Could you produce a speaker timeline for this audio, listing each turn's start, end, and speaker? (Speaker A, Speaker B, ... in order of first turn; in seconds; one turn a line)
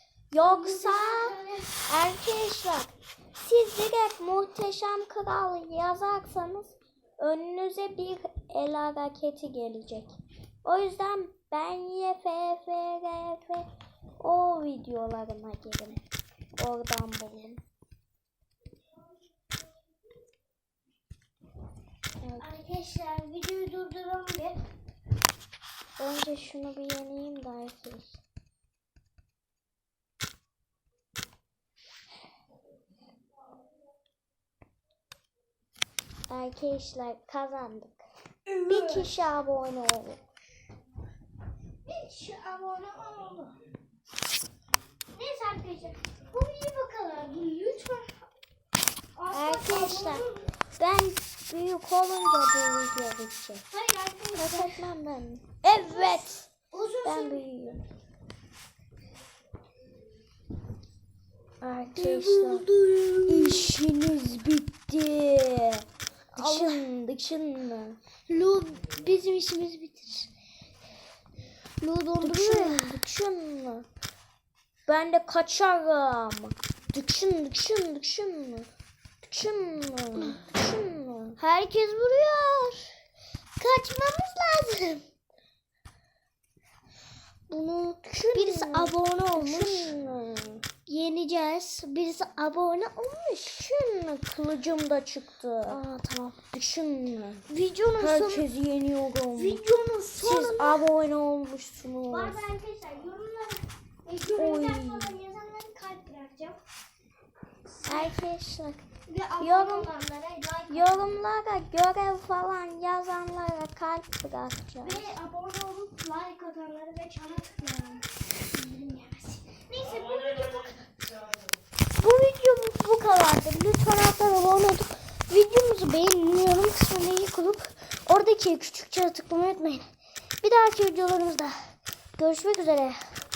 Speaker A: 0.3-13.7
Speaker B: 0.4-1.8
Speaker A: 14.2-16.0
Speaker A: 16.6-17.6
Speaker A: 22.2-22.6
Speaker B: 22.4-24.6
Speaker A: 26.0-28.2
Speaker A: 36.3-38.0
Speaker B: 38.5-39.1
Speaker A: 38.7-40.2
Speaker B: 41.9-43.6
Speaker B: 45.1-48.2
Speaker B: 49.2-50.5
Speaker A: 49.3-50.3
Speaker A: 50.8-53.6
Speaker B: 53.7-54.8
Speaker A: 54.4-56.5
Speaker B: 55.7-57.4
Speaker A: 57.0-57.8
Speaker A: 61.6-62.7
Speaker B: 61.9-63.7
Speaker A: 63.3-68.0
Speaker B: 66.3-66.8
Speaker B: 68.3-70.3
Speaker B: 71.8-73.0
Speaker A: 72.2-73.9
Speaker A: 74.9-78.7
Speaker A: 79.2-81.4
Speaker B: 81.4-82.9
Speaker B: 83.6-85.0
Speaker B: 87.5-90.0
Speaker A: 88.0-90.7
Speaker B: 90.9-93.6
Speaker A: 93.5-95.8
Speaker B: 95.7-96.3
Speaker A: 96.3-97.5
Speaker B: 97.5-98.5
Speaker A: 98.0-99.6
Speaker B: 99.3-100.8
Speaker A: 100.2-102.4
Speaker B: 102.1-106.6
Speaker A: 104.4-105.1
Speaker B: 107.8-108.1
Speaker A: 107.9-108.8
Speaker B: 109.1-111.2
Speaker A: 109.4-109.9
Speaker A: 110.7-115.0
Speaker B: 114.8-120.9
Speaker B: 122.0-129.9
Speaker B: 130.4-131.6
Speaker B: 132.2-133.0